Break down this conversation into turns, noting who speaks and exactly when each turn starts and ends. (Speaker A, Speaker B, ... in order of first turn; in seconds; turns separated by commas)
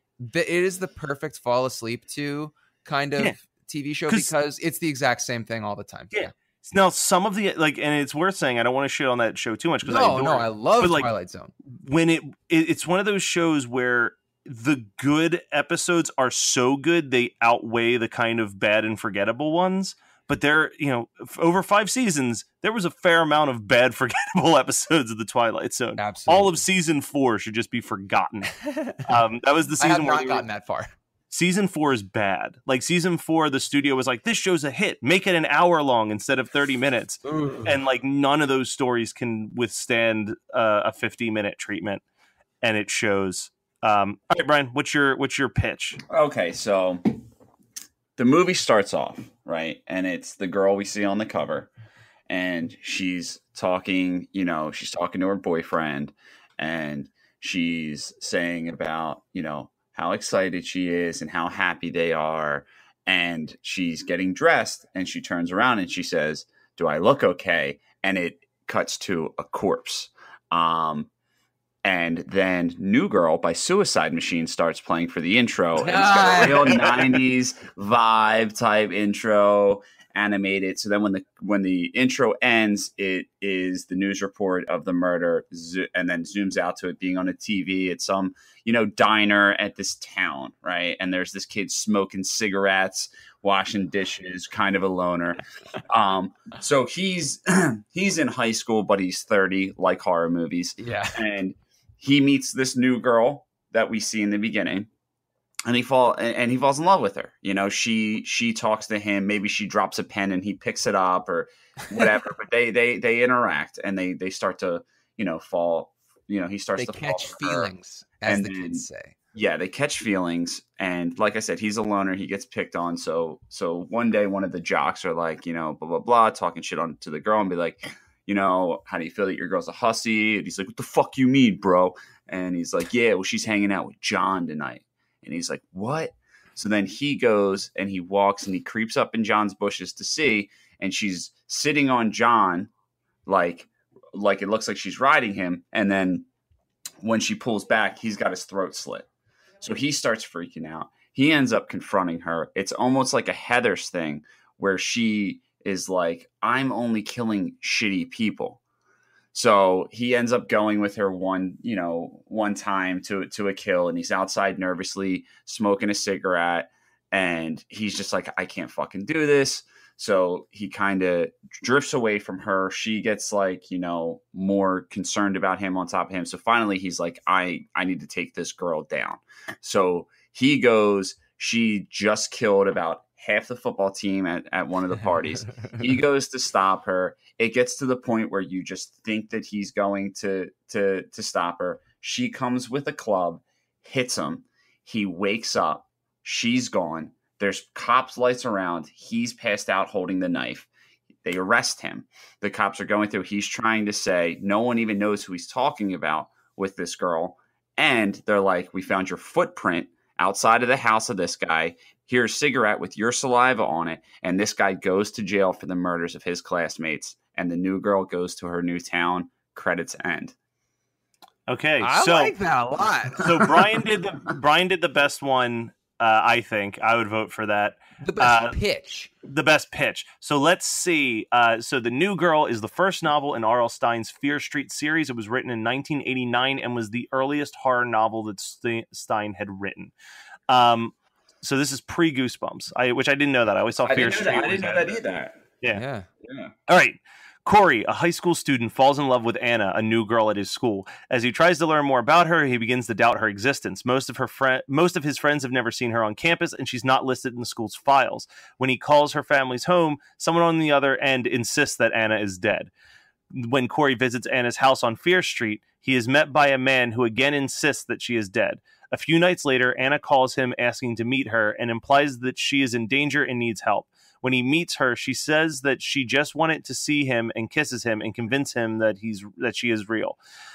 Speaker A: 0.2-6.3, Speaker B: 4.1-4.3, Speaker B: 6.1-11.1, Speaker A: 9.8-11.5, Speaker B: 11.8-30.4, Speaker A: 26.0-26.6, Speaker A: 28.6-29.0, Speaker A: 29.8-30.9, Speaker B: 31.3-42.0, Speaker A: 37.2-37.8, Speaker B: 42.6-46.0, Speaker C: 46.1-47.2, Speaker C: 48.2-51.7, Speaker C: 52.3-71.1, Speaker C: 71.8-95.4, Speaker A: 75.8-77.1, Speaker C: 95.9-104.9, Speaker A: 100.8-101.2, Speaker C: 105.7-117.7, Speaker A: 116.8-119.2, Speaker C: 118.3-142.7, Speaker C: 143.3-146.3, Speaker C: 147.0-149.1, Speaker C: 149.6-158.6, Speaker C: 159.3-200.7, Speaker C: 201.2-220.3, Speaker B: 221.5-222.3, Speaker A: 221.8-223.8, Speaker B: 223.2-228.6, Speaker A: 228.0-229.1, Speaker B: 229.2-239.9, Speaker B: 240.5-245.0, Speaker C: 243.8-245.4, Speaker A: 245.7-246.1, Speaker C: 246.2-246.5, Speaker B: 246.7-262.7, Speaker B: 263.3-280.2